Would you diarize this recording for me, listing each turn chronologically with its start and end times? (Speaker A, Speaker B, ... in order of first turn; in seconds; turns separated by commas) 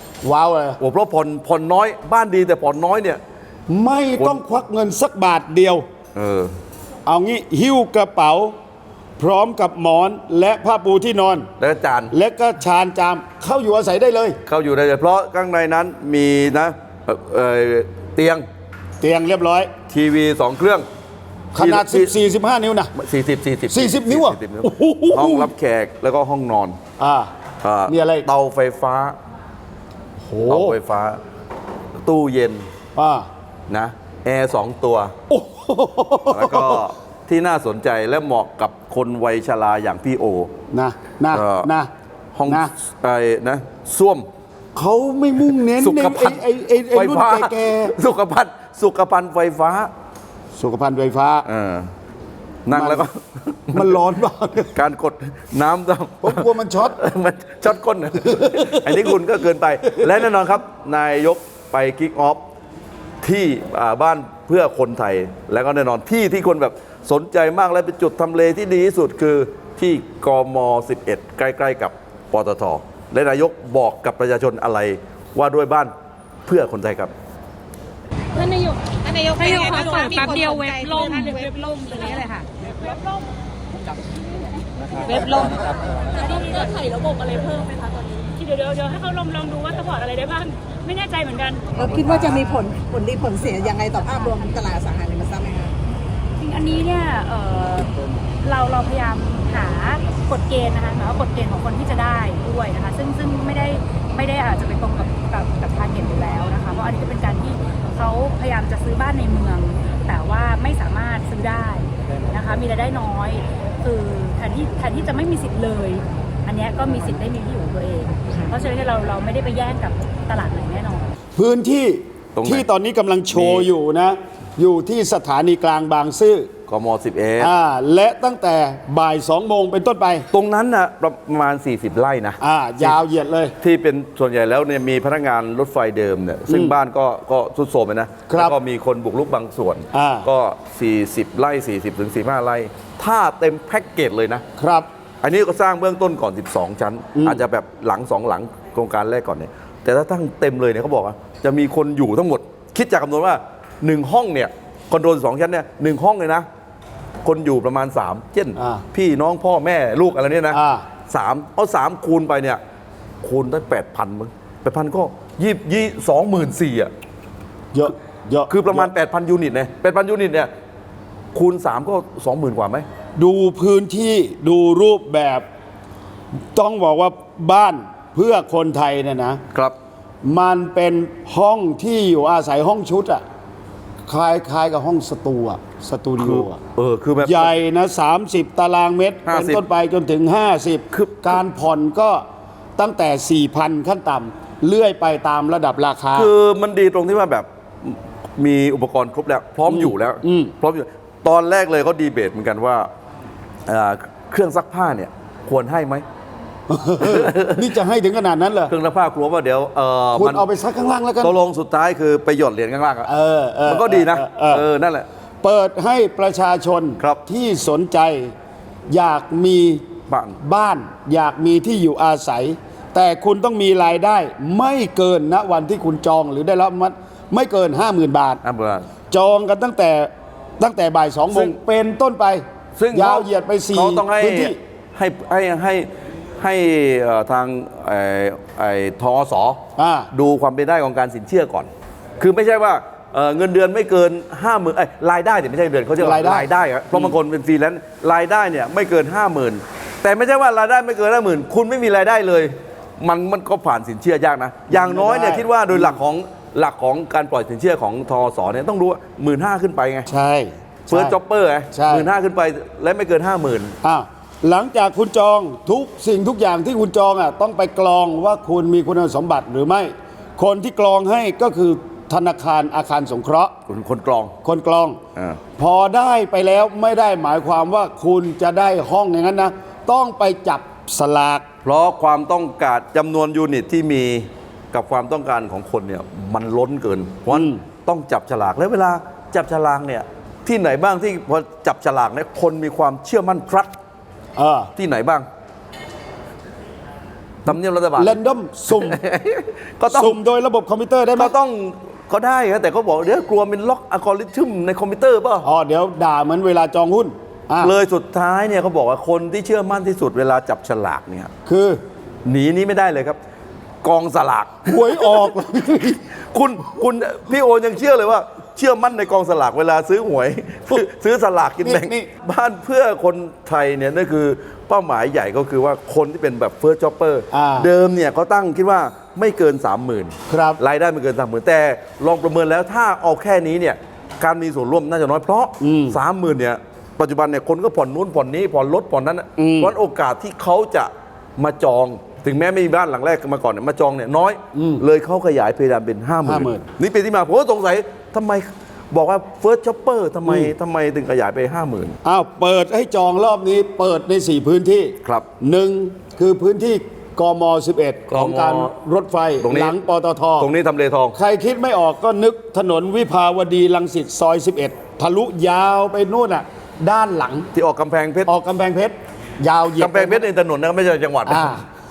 Speaker A: 0.2-0.8, Speaker B: 0.8-3.2, Speaker A: 3.7-5.8, Speaker B: 6.1-6.5, Speaker A: 7.0-8.6, Speaker A: 9.2-11.5, Speaker B: 11.6-12.1, Speaker A: 12.1-14.4, Speaker B: 14.4-18.4, Speaker A: 19.0-19.7, Speaker B: 19.9-20.9, Speaker A: 21.6-22.9, Speaker B: 21.6-22.2, Speaker B: 22.9-26.8, Speaker A: 23.7-25.5, Speaker A: 27.0-27.3, Speaker B: 27.6-29.2, Speaker A: 27.9-28.3, Speaker A: 30.2-30.8, Speaker B: 30.5-31.2, Speaker B: 32.0-32.7, Speaker A: 33.0-33.3, Speaker B: 33.7-35.1, Speaker A: 35.3-36.8, Speaker B: 36.3-40.5, Speaker A: 40.7-41.9, Speaker B: 41.3-41.7, Speaker B: 42.3-44.3, Speaker A: 42.5-42.7, Speaker A: 44.7-47.9, Speaker B: 45.6-49.9, Speaker A: 50.5-51.5, Speaker B: 51.4-51.9, Speaker B: 52.7-54.0, Speaker A: 52.7-53.1, Speaker A: 53.7-54.8, Speaker B: 54.7-62.4, Speaker A: 56.2-57.0, Speaker A: 58.2-59.2, Speaker B: 63.2-75.9, Speaker B: 76.5-77.1, Speaker C: 79.0-82.3, Speaker D: 79.4-83.1, Speaker D: 85.0-87.8, Speaker C: 85.1-85.7, Speaker D: 88.3-91.7, Speaker E: 91.8-95.7, Speaker D: 96.4-121.1, Speaker A: 121.4-126.5, Speaker B: 122.4-122.7, Speaker B: 123.3-123.7, Speaker B: 126.7-127.5, Speaker A: 127.4-130.3, Speaker B: 130.3-132.9, Speaker A: 132.4-133.6, Speaker B: 133.6-144.4, Speaker A: 136.5-136.7, Speaker A: 138.3-138.6, Speaker A: 139.9-140.3, Speaker A: 144.6-144.9, Speaker B: 145.2-156.5, Speaker A: 147.1-147.4, Speaker B: 157.2-162.6, Speaker A: 158.6-158.8, Speaker A: 160.5-160.9, Speaker B: 163.2-166.9, Speaker A: 167.7-168.9, Speaker B: 168.5-170.5, Speaker B: 171.3-172.9, Speaker A: 173.2-175.4, Speaker A: 176.5-179.4, Speaker A: 180.2-183.2, Speaker A: 184.1-186.6, Speaker B: 186.2-187.5, Speaker A: 187.2-192.2, Speaker B: 189.2-189.6, Speaker B: 190.9-191.4, Speaker A: 192.8-196.3, Speaker B: 196.1-202.9, Speaker A: 199.7-200.5, Speaker B: 203.7-206.1, Speaker A: 206.7-208.7, Speaker B: 207.0-207.7, Speaker B: 208.7-210.5, Speaker A: 210.1-211.3, Speaker B: 211.2-213.1, Speaker A: 213.1-214.7, Speaker B: 213.7-215.1, Speaker A: 215.4-218.3, Speaker A: 218.9-219.8, Speaker B: 220.1-220.4, Speaker A: 220.4-228.4, Speaker B: 228.4-228.9, Speaker A: 229.1-234.6, Speaker B: 231.3-231.6, Speaker B: 232.8-239.6, Speaker A: 239.8-240.1, Speaker B: 240.1-260.1, Speaker A: 246.0-246.5, Speaker A: 254.7-256.0, Speaker A: 260.1-261.2, Speaker B: 260.9-263.8, Speaker A: 261.7-262.1, Speaker A: 263.8-273.5, Speaker B: 273.7-274.3, Speaker A: 274.4-275.0, Speaker A: 275.6-281.4, Speaker B: 281.6-293.7, Speaker A: 287.3-287.6, Speaker A: 294.4-294.7, Speaker B: 294.8-295.3, Speaker B: 297.4-298.2, Speaker A: 297.5-299.0, Speaker B: 298.7-300.2, Speaker A: 299.9-301.3, Speaker B: 301.2-305.4, Speaker A: 305.4-307.7, Speaker B: 307.6-311.3, Speaker A: 311.4-311.8, Speaker B: 312.2-313.2, Speaker B: 313.8-315.4, Speaker A: 314.6-316.0, Speaker B: 316.1-352.0, Speaker A: 321.6-322.1, Speaker A: 327.3-327.7, Speaker A: 330.3-330.6, Speaker A: 335.6-336.0, Speaker A: 339.4-339.8, Speaker A: 344.5-344.8, Speaker A: 346.2-346.6, Speaker A: 352.0-360.5, Speaker B: 358.1-358.7, Speaker B: 359.4-359.8, Speaker B: 360.4-361.2, Speaker A: 361.1-367.5, Speaker B: 367.5-368.3, Speaker A: 368.2-370.3, Speaker B: 369.8-371.6, Speaker A: 371.2-371.6